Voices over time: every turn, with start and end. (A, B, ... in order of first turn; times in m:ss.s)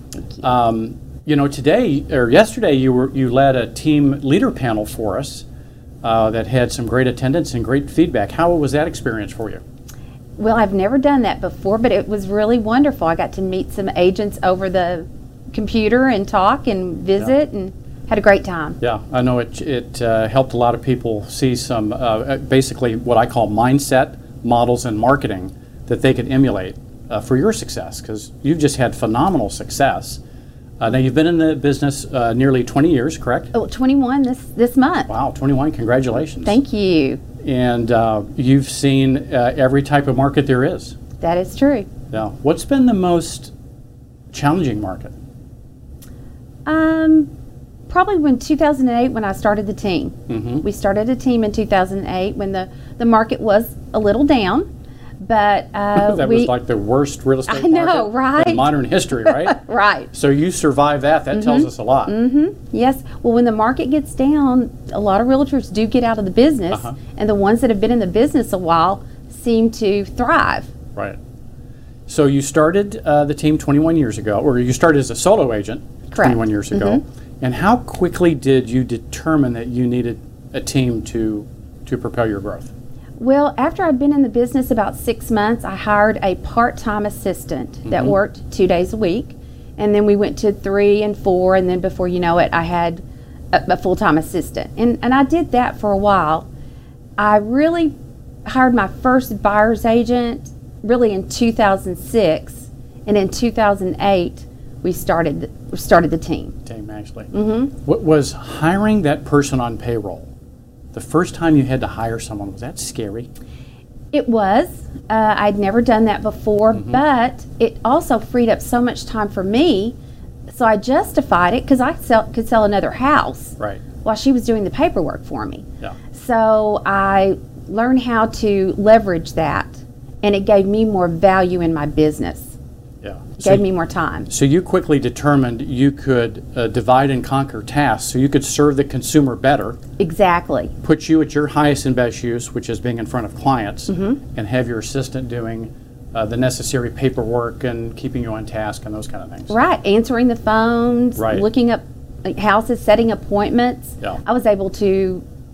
0:00.2-0:00.4 A
0:00.4-0:05.4 B
0:06.0-0:09.6 B
0:10.4-0:18.8 A
0:18.8-0:30.2 B
0:30.8-0:33.5 B
0:33.5-0:35.1 A
0:35.1-0:36.6 B
0:36.4-0:37.2 A
0:37.4-0:41.0 B
0:41.2-0:41.9 A
0:42.1-0:43.5 B
0:44.3-0:45.1 B
0:46.6-0:47.3 A
0:47.9-0:54.7 A
0:50.3-0:50.6 B
0:55.2-0:56.5 A
0:55.9-0:59.6 B
0:57.5-1:00.1 A
1:00.1-1:02.1 B
1:01.3-1:10.7 A
1:12.1-1:22.7 B
1:16.1-1:17.0 A
1:23.2-1:33.0 A
1:27.8-1:28.2 B
1:33.5-1:36.5 A
1:37.2-1:46.6 A
1:46.6-1:50.3 B
1:47.3-1:47.7 A
1:50.9-1:53.3 B
1:54.1-2:00.0 A
1:56.7-1:57.0 B
2:00.5-2:12.5 A
2:13.0-2:13.6 B
2:13.4-2:14.3 A
2:14.3-2:19.8 B
2:20.0-2:20.7 A
2:20.8-2:29.5 B
2:23.9-2:24.2 A
2:29.5-2:35.2 A
2:31.2-2:31.4 B